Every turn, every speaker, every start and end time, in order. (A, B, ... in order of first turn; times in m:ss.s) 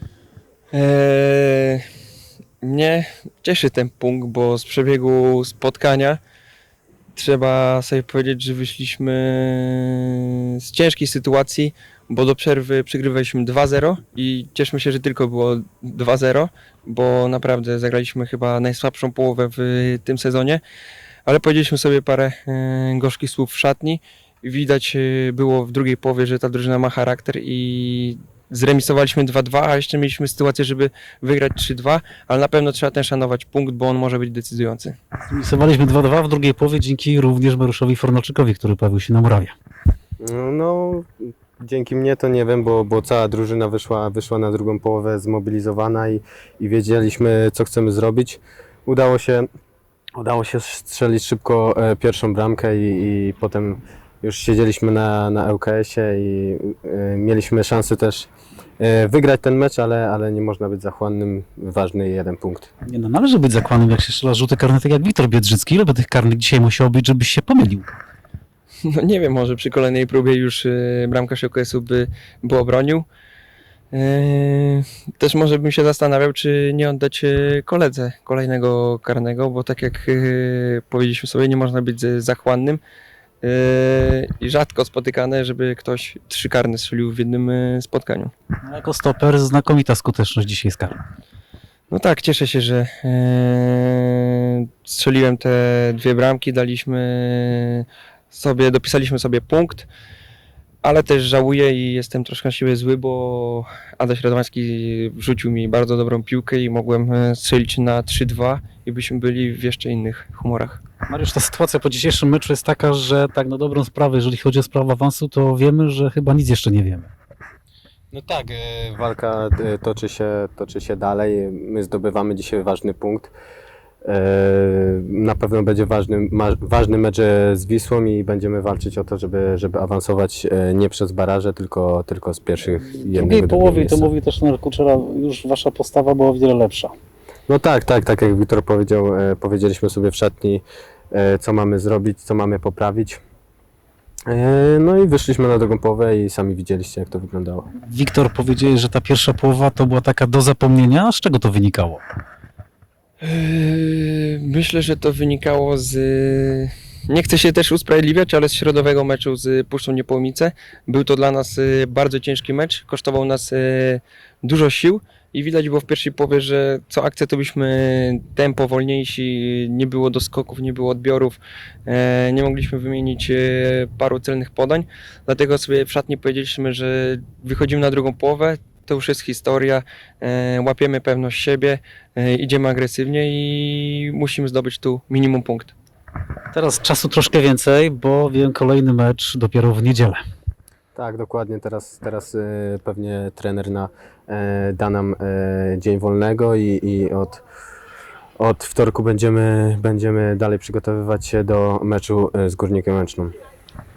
0:00.7-0:01.8 A
0:02.6-0:06.2 A
0:07.1-0:20.6 A
0:21.2-0:35.0 A
0:35.3-0:39.5 B
0:40.2-0:49.5 C
0:50.1-1:02.7 C
1:02.9-1:07.9 B
1:08.8-1:13.1 A
1:13.9-1:22.8 A
1:23.4-1:28.3 A
1:28.6-1:31.0 B
1:31.9-1:39.9 A
1:40.8-1:50.8 A
1:51.1-1:57.1 B
1:58.1-2:03.3 C
2:04.0-2:14.1 C
2:12.9-2:16.9 B
2:17.5-2:23.2 C
2:24.3-2:27.6 C
2:27.8-2:32.0 B
2:33.2-3:05.7 A
3:06.5-3:10.2 B
3:10.9-3:17.4 C
3:18.4-3:23.3 C